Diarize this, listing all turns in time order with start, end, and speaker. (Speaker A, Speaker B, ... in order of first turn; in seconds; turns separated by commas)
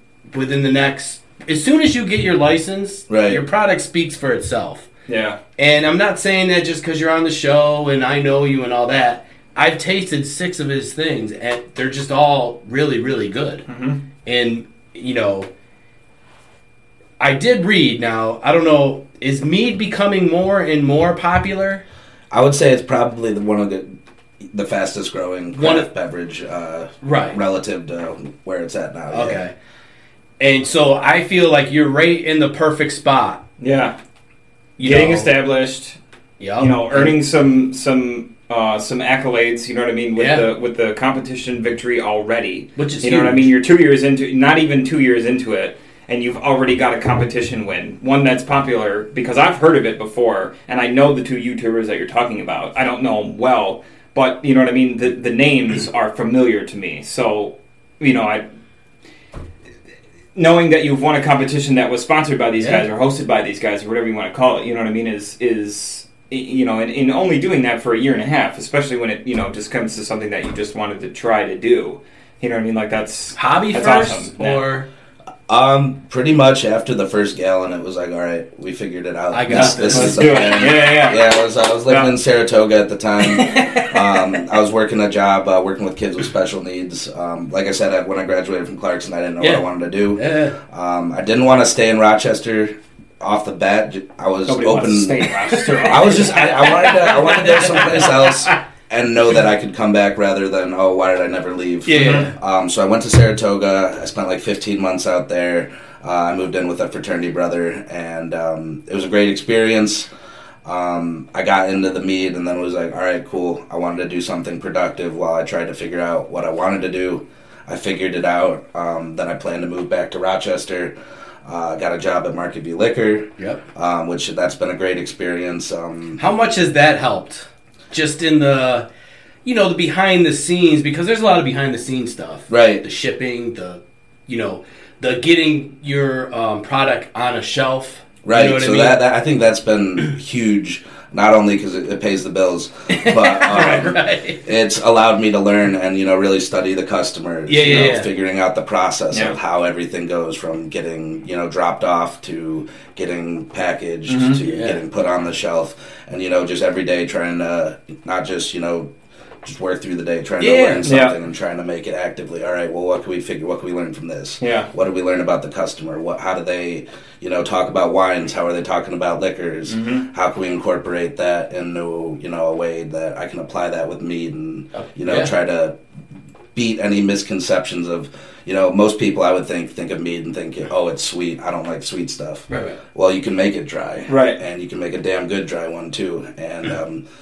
Speaker A: 0.3-4.9, Speaker B: 3.1-3.4, Speaker C: 5.1-5.4, Speaker A: 5.6-13.7, Speaker C: 13.7-14.0, Speaker A: 14.2-15.5, Speaker A: 17.2-21.8, Speaker B: 22.3-23.9, Speaker B: 24.5-29.4, Speaker A: 25.5-25.9, Speaker A: 27.0-27.4, Speaker A: 29.1-29.5, Speaker A: 30.4-33.4, Speaker C: 33.6-33.9, Speaker A: 34.8-35.3, Speaker C: 34.8-36.0, Speaker A: 36.4-37.1, Speaker C: 36.6-58.4, Speaker A: 40.1-40.5, Speaker A: 42.8-43.5, Speaker C: 60.4-74.6, Speaker A: 62.6-62.9, Speaker A: 73.3-74.9, Speaker B: 75.5-110.1, Speaker A: 79.3-80.6, Speaker C: 79.5-81.3, Speaker C: 81.9-82.1, Speaker A: 83.3-83.9, Speaker A: 89.4-90.6, Speaker C: 94.5-97.1, Speaker A: 95.6-98.5, Speaker A: 101.9-102.3, Speaker C: 101.9-102.3, Speaker B: 110.6-120.9, Speaker B: 121.4-126.2, Speaker A: 123.4-123.6, Speaker A: 126.2-128.9, Speaker A: 129.4-139.0, Speaker B: 132.5-132.8, Speaker B: 138.2-158.9, Speaker A: 142.9-144.4, Speaker A: 147.5-148.1, Speaker C: 154.1-154.4, Speaker A: 154.4-154.8, Speaker B: 159.4-175.8, Speaker A: 160.4-160.9, Speaker C: 160.8-161.1, Speaker C: 164.4-164.7, Speaker C: 169.7-170.1, Speaker A: 174.7-175.3, Speaker B: 176.6-187.0, Speaker A: 182.5-182.8, Speaker C: 184.1-184.4